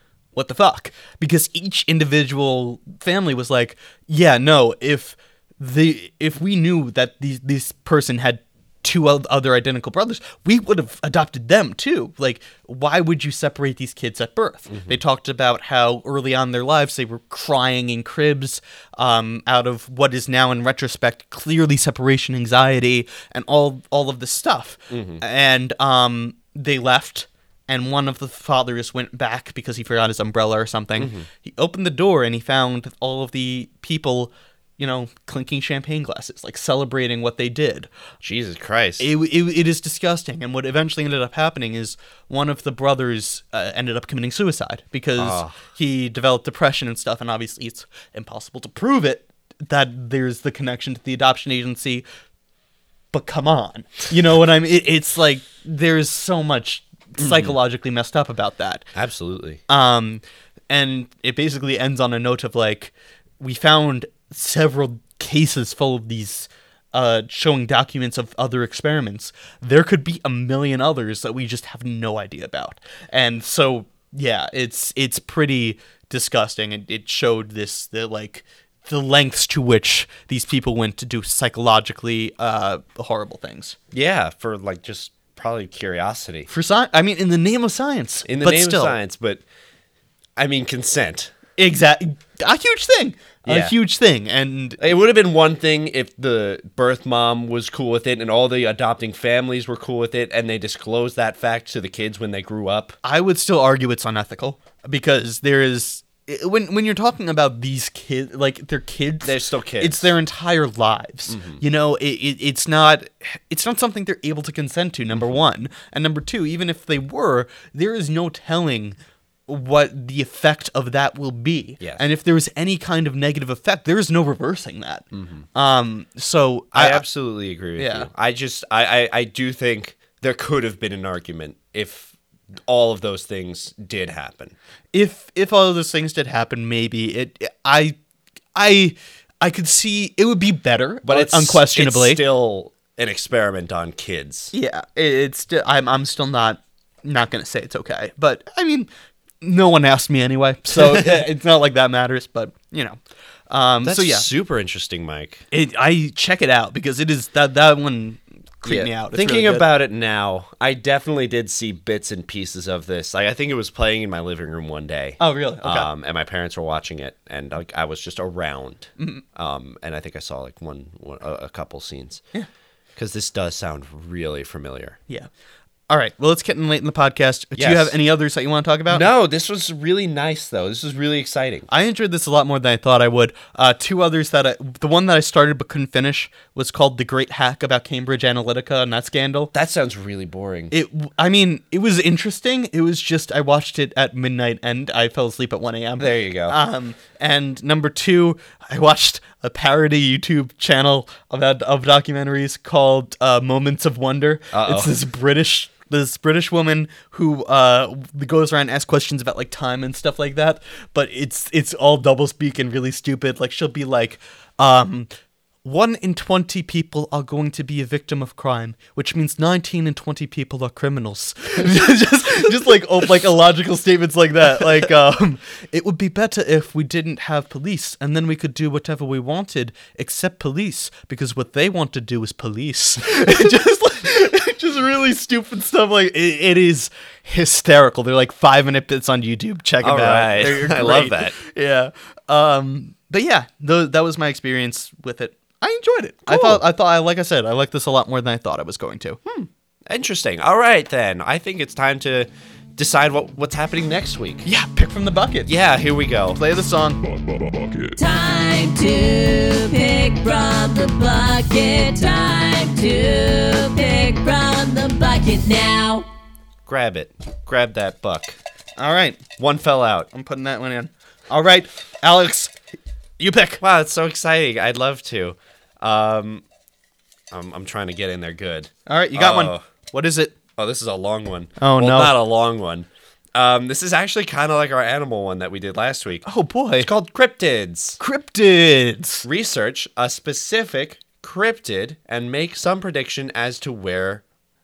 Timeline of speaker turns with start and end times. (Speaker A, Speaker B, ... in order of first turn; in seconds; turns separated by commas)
Speaker A: 0.3-37.9, Speaker B: 14.7-15.0, Speaker B: 24.9-25.2, Speaker B: 31.0-31.3, Speaker B: 38.2-39.1, Speaker A: 39.0-52.0, Speaker B: 45.2-45.6, Speaker A: 53.1-58.8, Speaker B: 57.2-57.5, Speaker B: 58.9-59.6, Speaker A: 59.7-83.8, Speaker B: 83.9-86.5, Speaker A: 86.5-89.0, Speaker B: 88.2-89.4, Speaker B: 90.4-91.3, Speaker A: 91.6-94.8, Speaker B: 93.4-93.7, Speaker B: 94.8-103.0, Speaker A: 103.0-119.0, Speaker B: 109.2-110.1, Speaker B: 111.3-111.6, Speaker A: 119.5-127.0, Speaker B: 125.1-125.4, Speaker B: 126.7-134.5, Speaker A: 127.8-128.1, Speaker A: 134.9-137.9, Speaker A: 138.6-142.2, Speaker B: 141.1-144.5, Speaker A: 144.5-148.9, Speaker A: 149.4-152.9, Speaker B: 150.8-151.2, Speaker A: 153.5-154.2, Speaker B: 153.8-155.4, Speaker A: 155.5-159.7, Speaker B: 158.7-172.2, Speaker A: 165.2-165.9, Speaker A: 169.0-169.2, Speaker B: 172.9-175.0, Speaker A: 175.9-179.1, Speaker B: 177.6-177.9, Speaker B: 178.9-181.7, Speaker A: 181.7-189.5, Speaker B: 189.5-190.7, Speaker A: 190.7-215.1, Speaker B: 196.0-196.6, Speaker B: 204.5-204.9, Speaker A: 215.6-249.2, Speaker B: 239.8-241.4, Speaker B: 246.3-246.6, Speaker B: 249.2-254.4, Speaker A: 254.4-255.5, Speaker B: 255.4-256.4, Speaker A: 256.3-257.0, Speaker C: 257.9-266.1, Speaker B: 266.7-268.4, Speaker A: 268.8-269.2, Speaker B: 269.4-270.1, Speaker A: 270.1-272.5, Speaker A: 273.2-273.6, Speaker B: 273.6-276.4, Speaker B: 277.3-279.6, Speaker A: 278.9-280.3, Speaker B: 280.6-286.2, Speaker A: 281.6-282.1, Speaker A: 286.2-286.9, Speaker B: 286.8-288.0, Speaker A: 288.0-289.2, Speaker B: 289.2-294.2